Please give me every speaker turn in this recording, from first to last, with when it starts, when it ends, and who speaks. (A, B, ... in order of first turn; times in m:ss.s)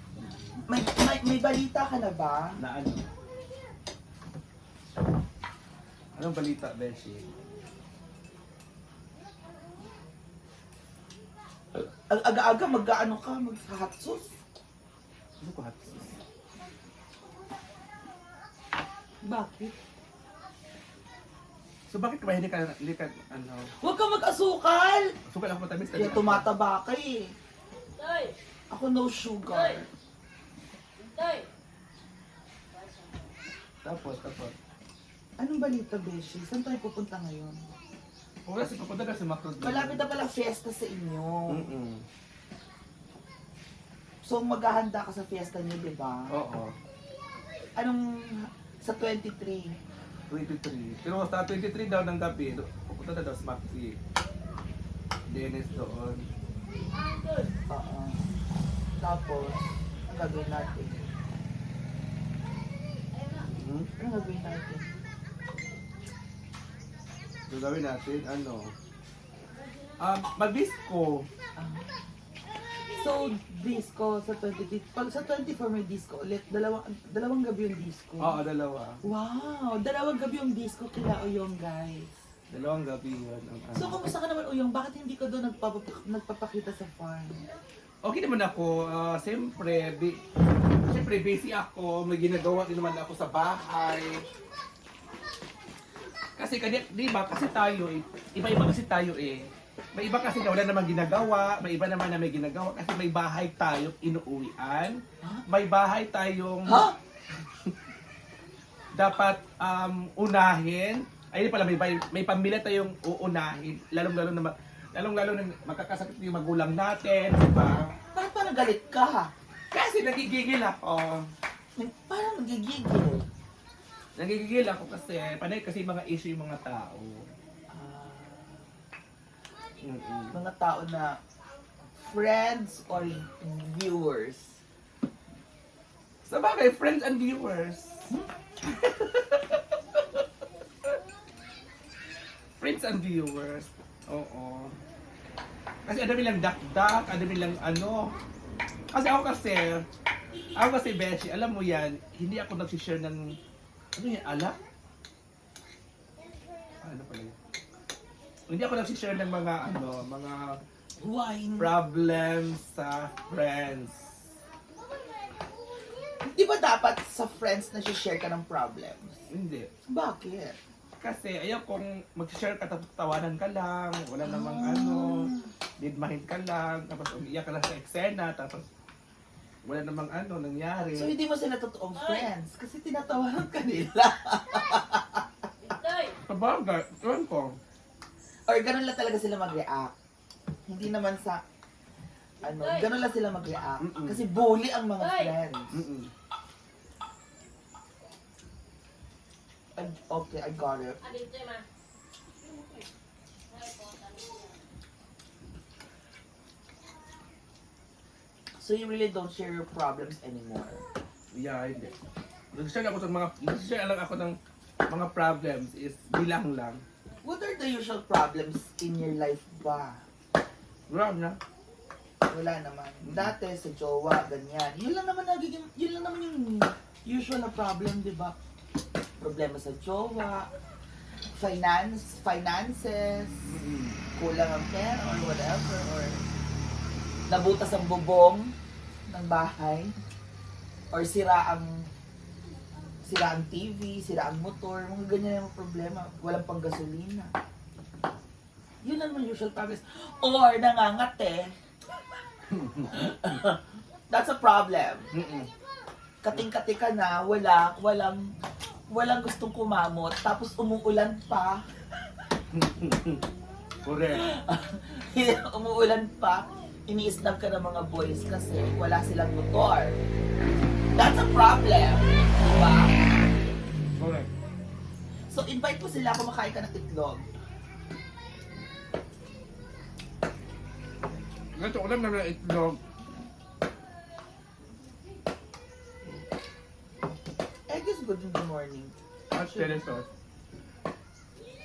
0:00.7-0:02.6 A
0:02.6-0:03.0 B
0:06.2-0:07.3 B
0:12.1-0:14.3 A
0:15.4-0:16.2 B
0:19.2-0:19.7 A
0:21.9-0:23.7 B
0:23.8-0:25.1 A
0:25.3-0:26.5 B
0:25.9-0:27.3 A
0:28.0-0:28.3 C
0:28.7-0:29.9 A
0:31.1-0:31.5 C
0:33.8-0:34.6 B
0:35.4-0:37.6 A
0:38.4-0:40.0 B
0:39.6-0:41.7 A
0:41.5-0:42.0 B
0:44.2-0:46.3 A
0:46.3-0:46.8 B
0:47.8-0:49.8 A
0:50.3-0:54.0 B
0:55.3-0:56.3 B
0:57.7-0:58.3 A
0:59.0-1:01.0 A
1:03.5-1:03.9 B
1:04.0-1:04.9 A
1:07.5-1:08.7 B
1:10.0-1:11.3 B
1:11.6-1:12.1 A
1:12.9-1:18.4 A
1:18.2-1:19.0 B
1:19.0-1:22.1 A
1:22.5-1:24.0 B
1:23.8-1:27.4 A
1:28.0-1:30.2 B
1:30.9-1:34.2 B
1:36.4-1:46.9 B
1:46.7-1:47.0 A
1:49.0-1:57.9 B
1:58.1-1:59.3 A
1:59.7-2:01.3 B
2:01.8-2:03.2 A
2:04.2-2:07.3 B
2:07.7-2:08.7 A
2:09.8-2:10.3 B
2:10.3-2:11.1 A
2:12.0-2:14.6 A
2:16.2-2:18.1 B
2:18.6-2:20.2 B
2:22.6-2:24.8 B
2:25.8-2:28.1 B
2:28.9-2:29.8 B
2:30.6-2:33.4 B
2:34.0-2:34.6 B
2:36.8-2:37.3 B
2:38.5-2:40.6 B
2:41.0-2:41.7 A
2:41.6-2:44.1 B
2:46.2-2:49.2 A
2:49.3-2:49.7 B
2:49.9-2:50.6 A
2:51.0-2:58.6 B
2:54.2-2:55.5 A
2:59.6-3:01.2 B
3:00.9-3:05.7 A
3:05.8-3:06.1 C
3:06.2-3:07.6 B
3:08.5-3:09.9 A
3:10.7-3:11.4 A
3:12.4-3:15.8 A
3:13.8-3:14.2 B
3:15.7-3:16.1 B
3:19.8-3:21.0 A
3:21.3-3:21.6 C
3:23.6-3:24.3 C
3:28.6-3:30.8 A
3:31.3-3:32.0 B
3:32.5-3:36.8 B
3:37.2-3:40.0 A
3:40.9-3:41.4 B
3:42.3-3:48.4 A
3:49.2-3:50.5 A
3:51.3-3:53.5 A
3:53.5-3:54.0 B
3:54.2-3:56.3 A
3:57.3-3:58.5 A
3:59.1-3:59.9 A
4:00.9-4:01.9 A
4:03.0-4:07.3 A
4:08.8-4:11.5 A
4:12.5-4:13.0 B
4:12.9-4:15.1 A
4:15.1-4:15.5 B
4:16.2-4:18.3 A
4:18.9-4:21.6 A
4:22.5-4:23.2 B
4:23.8-4:24.3 B
4:24.1-4:30.0 A
4:30.9-4:33.0 A
4:34.0-4:34.3 B
4:35.3-4:37.2 A
4:41.5-4:42.8 B
4:47.7-4:49.8 A
4:49.3-4:50.1 B